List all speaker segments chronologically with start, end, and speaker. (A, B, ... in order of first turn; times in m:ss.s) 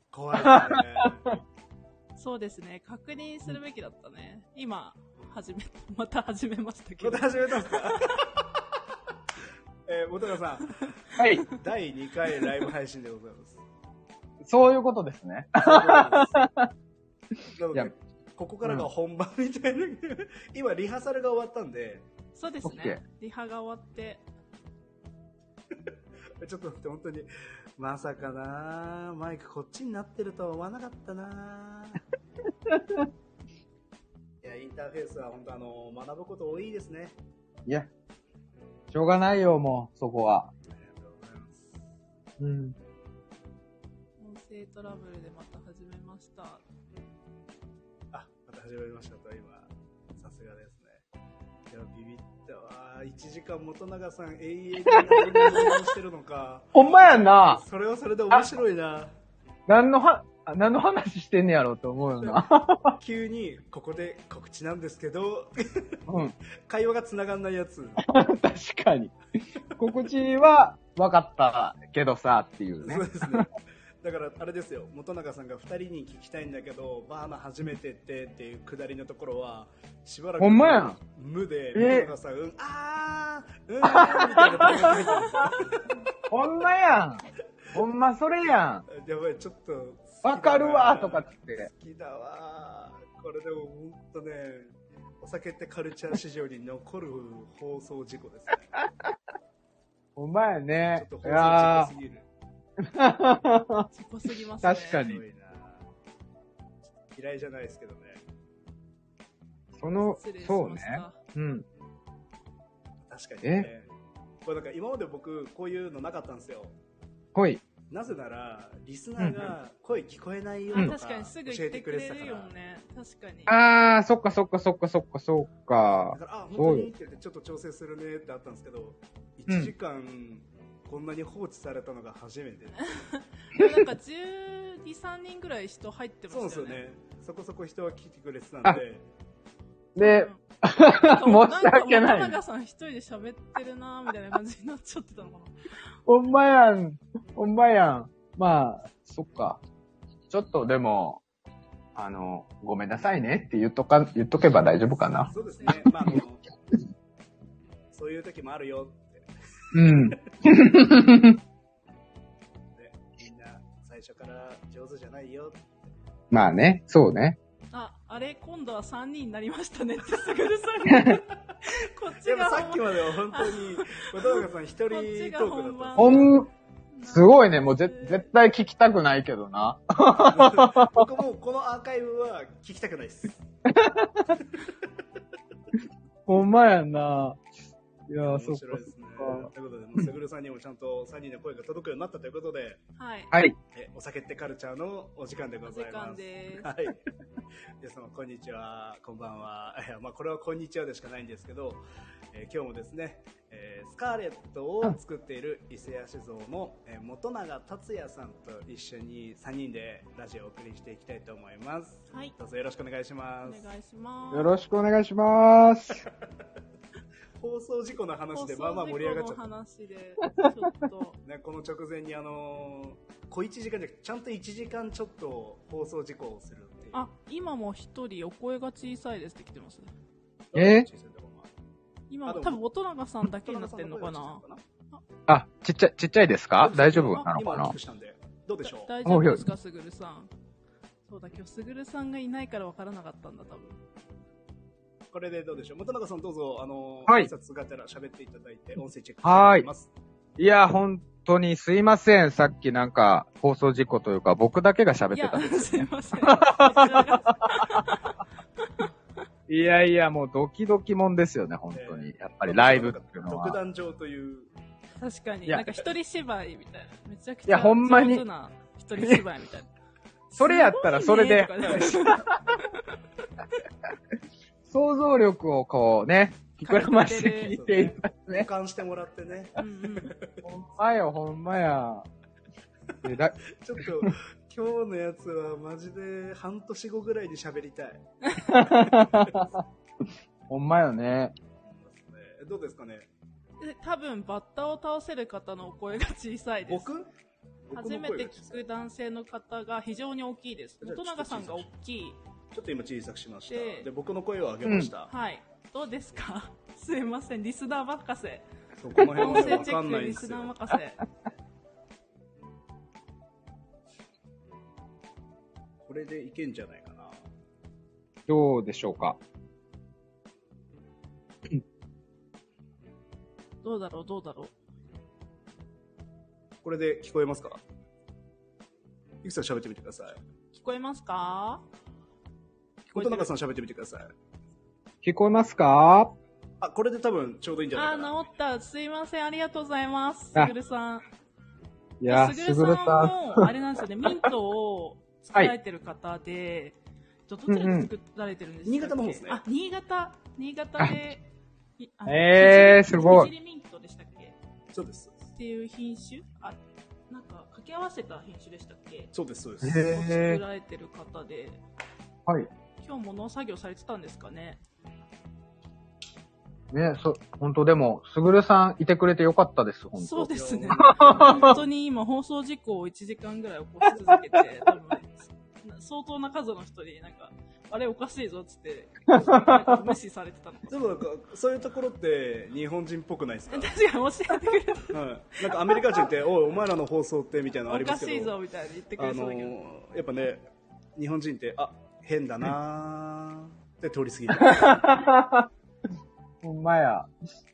0:00.1-0:01.2 A
0:00.3-0:01.3 B
0:02.2-0:08.2 C
0:07.0-0:08.2 A
0:09.9-0:10.8 A
0:11.2-0:11.4 B
0:11.4-0:13.6 A
0:14.4-0:16.7 B
0:15.6-0:16.4 A
0:17.6-0:22.1 A
0:22.3-0:24.2 C
0:22.6-0:23.0 B
0:26.4-0:32.0 A
0:32.7-0:33.1 B
0:34.4-0:37.2 A
0:38.9-0:40.5 B
0:40.7-0:41.9 A
0:42.4-0:42.7 B
0:44.2-0:46.6 C
0:48.1-0:51.0 A
0:51.7-0:59.1 A
0:54.9-0:55.8 B
0:56.7-0:57.6 B
0:59.7-1:03.0 B
1:03.0-1:06.0 A
1:06.1-1:06.4 B
1:06.7-1:08.0 A
1:08.0-1:09.1 B
1:09.7-1:10.0 A
1:09.8-1:13.5 B
1:12.8-1:13.5 A
1:14.0-1:25.9 A
1:20.4-1:21.0 B
1:21.7-1:22.1 B
1:23.8-1:25.5 B
1:26.3-1:28.8 B
1:28.9-1:38.8 A
1:30.2-1:31.7 B
1:40.2-1:41.9 B
1:41.0-1:42.2 A
1:42.8-1:43.9 B
1:43.9-1:45.0 C
1:44.6-1:45.2 B
1:45.0-1:45.8 A
1:47.0-1:48.2 A
1:49.7-1:51.6 B
1:50.0-1:51.2 C
1:53.0-1:53.9 A
1:53.4-1:53.7 B
1:54.4-1:56.8 A
1:57.3-1:57.6 B
1:57.9-2:02.5 A
1:59.2-1:59.5 B
2:00.7-2:03.5 C
2:03.5-2:06.9 B
2:06.1-2:12.9 A
2:12.8-2:16.8 C
2:16.3-2:19.0 A
2:20.0-2:22.4 B
2:20.0-2:25.5 C
2:26.1-2:29.6 B
2:30.3-2:31.2 B
2:31.9-2:36.2 B
2:35.3-2:35.9 C
2:35.3-2:36.4 A
2:37.9-2:40.2 A
2:39.7-2:41.4 B
2:42.7-2:45.9 A
2:46.3-2:47.4 B
2:47.7-2:58.3 C
2:50.9-2:51.2 B
2:52.2-2:56.3 A
2:56.0-2:56.5 B
2:57.0-3:01.1 B
3:00.3-3:03.4 A
3:03.7-3:04.4 B
3:04.4-3:04.7 A
3:06.3-3:07.4 B
3:08.1-3:10.1 B
3:08.2-3:12.8 A
3:13.0-3:13.3 C
3:13.7-3:17.0 A
3:15.6-3:16.7 C
3:17.8-3:21.8 A
3:22.3-3:33.7 A
3:33.4-3:34.5 C
3:34.3-3:36.0 B
3:37.4-3:39.4 A
3:38.3-3:41.2 C
3:41.2-3:47.0 A
3:46.9-3:49.9 C
3:50.5-3:51.5 A
3:50.5-3:50.9 B
3:52.1-3:55.0 C
3:52.2-3:52.6 A
3:53.4-3:54.6 A
3:55.3-3:57.7 B
3:56.6-3:58.9 A
3:56.9-3:57.3 C
3:58.7-4:00.3 C
3:59.0-3:59.4 B
4:01.1-4:03.8 C
4:05.1-4:09.9 A
4:09.2-4:09.7 B
4:10.4-4:17.8 B
4:15.1-4:18.7 C
4:19.5-4:23.6 B
4:21.7-4:24.5 A
4:25.0-4:29.7 C
4:27.4-4:28.2 B
4:29.0-4:29.2 B
4:30.3-4:32.9 C
4:30.4-4:32.6 B
4:34.7-4:38.5 B
4:36.6-4:37.6 C
4:37.5-4:40.4 A
4:39.6-4:40.1 C
4:40.4-4:42.0 B
4:43.0-4:44.1 B
4:43.0-4:48.0 A
4:48.4-4:49.6 B
4:50.5-4:51.3 B
4:51.6-4:53.1 A
4:53.6-4:56.9 C
4:56.7-4:57.1 A
4:57.7-4:58.6 A
4:57.7-5:02.2 C
5:00.8-5:01.7 A
5:02.5-5:05.1 A
5:03.5-5:03.9 C
5:04.6-5:04.9 B
5:05.1-5:08.4 C
5:08.8-5:10.5 A
5:09.0-5:11.0 C
5:15.8-5:17.2 A
5:18.3-5:19.2 B
5:23.6-5:24.5 C
5:26.6-5:27.6 A
5:29.2-5:30.2 A
5:30.5-5:31.6 C
5:32.9-5:34.1 A
5:32.9-5:33.3 C
5:35.0-5:36.1 B
5:36.6-5:38.1 A
5:37.7-5:41.0 C
5:42.0-5:43.5 B
5:42.0-5:51.2 C
5:47.5-5:47.9 B
5:48.6-5:49.4 A
5:51.8-5:54.4 C
5:52.0-5:53.3 B
5:54.7-5:55.2 A
5:55.3-5:59.1 C
5:59.1-5:59.9 A
5:59.6-6:00.4 B
5:59.7-6:01.6 C
6:02.8-6:04.6 C
6:06.7-6:11.6 B
6:09.9-6:20.8 C
6:10.3-6:11.6 A
6:19.1-6:19.9 B
6:20.7-6:23.7 A
6:23.5-6:26.0 C
6:24.9-6:28.3 A
6:27.7-6:29.5 C
6:29.0-6:34.9 A
6:34.3-6:35.5 B
6:36.4-6:37.3 B